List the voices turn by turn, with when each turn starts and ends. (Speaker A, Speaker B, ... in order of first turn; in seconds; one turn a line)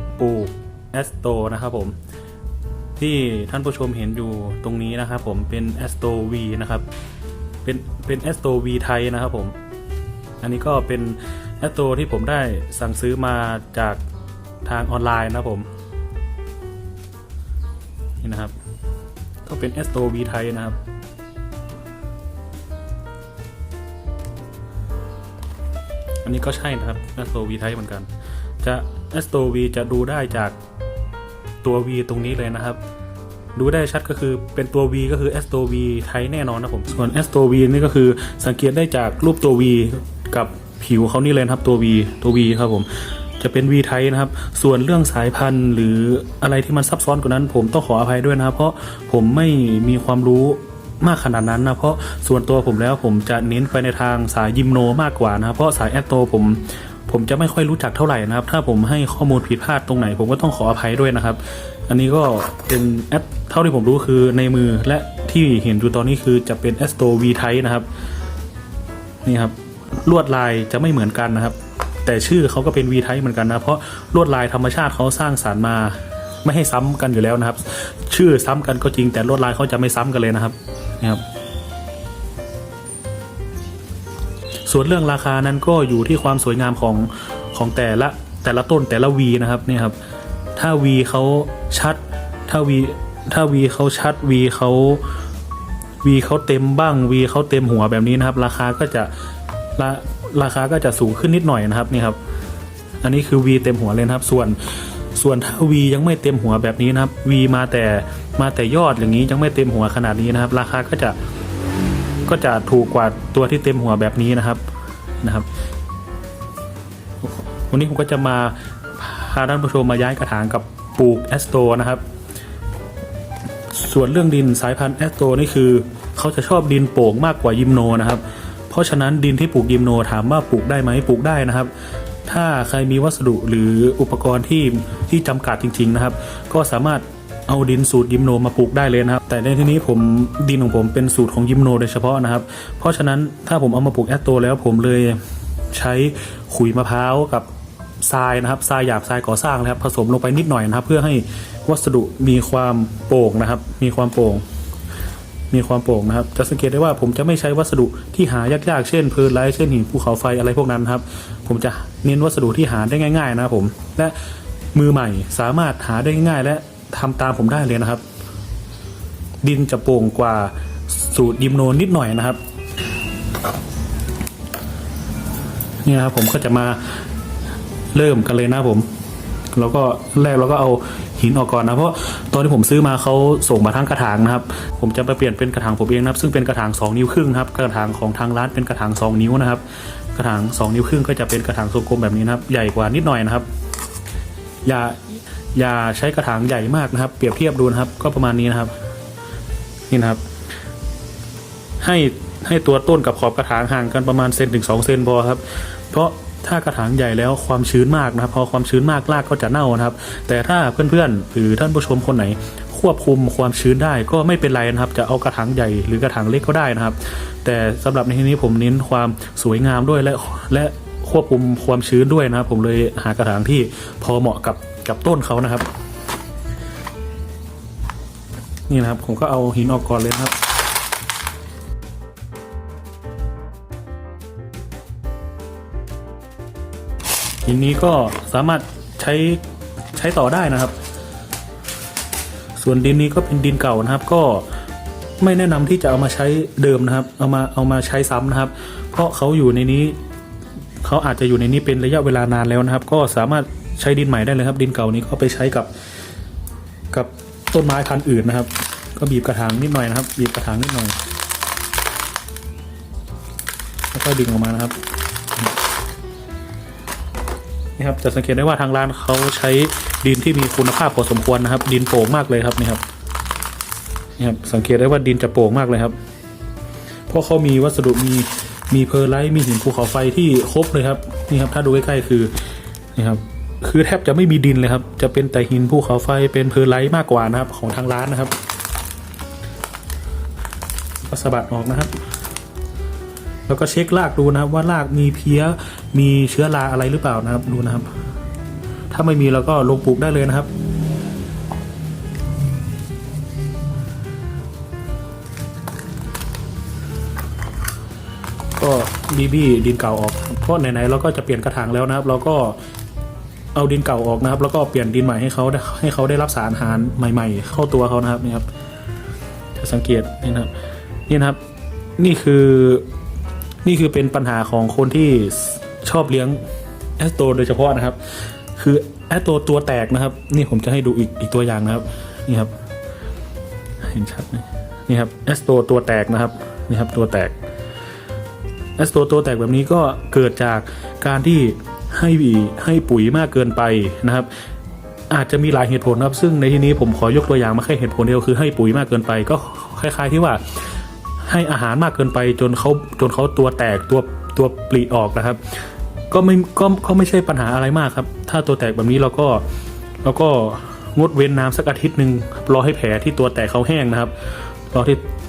Speaker A: 0.2-2.0
Speaker A: 3.0-6.9
Speaker A: 7.6-9.6
Speaker A: 10.4-14.0
Speaker A: 14.6-15.7
Speaker A: 18.2-18.6
Speaker A: 19.4-20.8
Speaker A: 26.2-28.1
Speaker A: 28.6-30.6
Speaker A: 31.6-32.8
Speaker A: 33.5-67.9
Speaker A: 69.2-81.2
Speaker A: 84.7-90.0
Speaker A: 90.5-95.1
Speaker A: 96.0-99.1
Speaker A: 99.8-102.2
Speaker A: 103.0-111.2
Speaker A: 112.3-114.6
Speaker A: 115.2-115.5
Speaker A: 117.2-122.0
Speaker A: 123.7-131.7
Speaker A: 132.3-154.4
Speaker A: 155.5-164.2
Speaker A: 164.7-168.0
Speaker A: 169.4-172.4
Speaker A: 175.8-177.1
Speaker A: 177.9-178.9
Speaker A: 179.5-193.5
Speaker A: 194.6-198.7
Speaker A: 199.9-200.2
Speaker A: 201.8-225.7
Speaker A: 228.7-230.4
Speaker A: 237.4-239.4
Speaker A: 239.9-240.8
Speaker A: 242.6-244.5
Speaker A: 245.2-250.0
Speaker A: 250.8-255.7
Speaker A: 256.9-261.0
Speaker A: 263.9-264.8
Speaker A: 267.8-272.8
Speaker A: 274.2-276.0
Speaker A: 277.1-288.4
Speaker A: 291.0-292.0
Speaker A: 293.5-297.9
Speaker A: 298.9-300.5
Speaker A: 308.6-312.6
Speaker A: 313.6-318.5
Speaker A: 319.6-320.5
Speaker A: 321.1-321.4
Speaker A: 322.0-322.9
Speaker A: 323.6-326.4
Speaker A: 327.0-332.5
Speaker A: 333.8-337.4
Speaker A: 338.8-344.3
Speaker A: 345.1-359.4
Speaker A: 360.0-365.1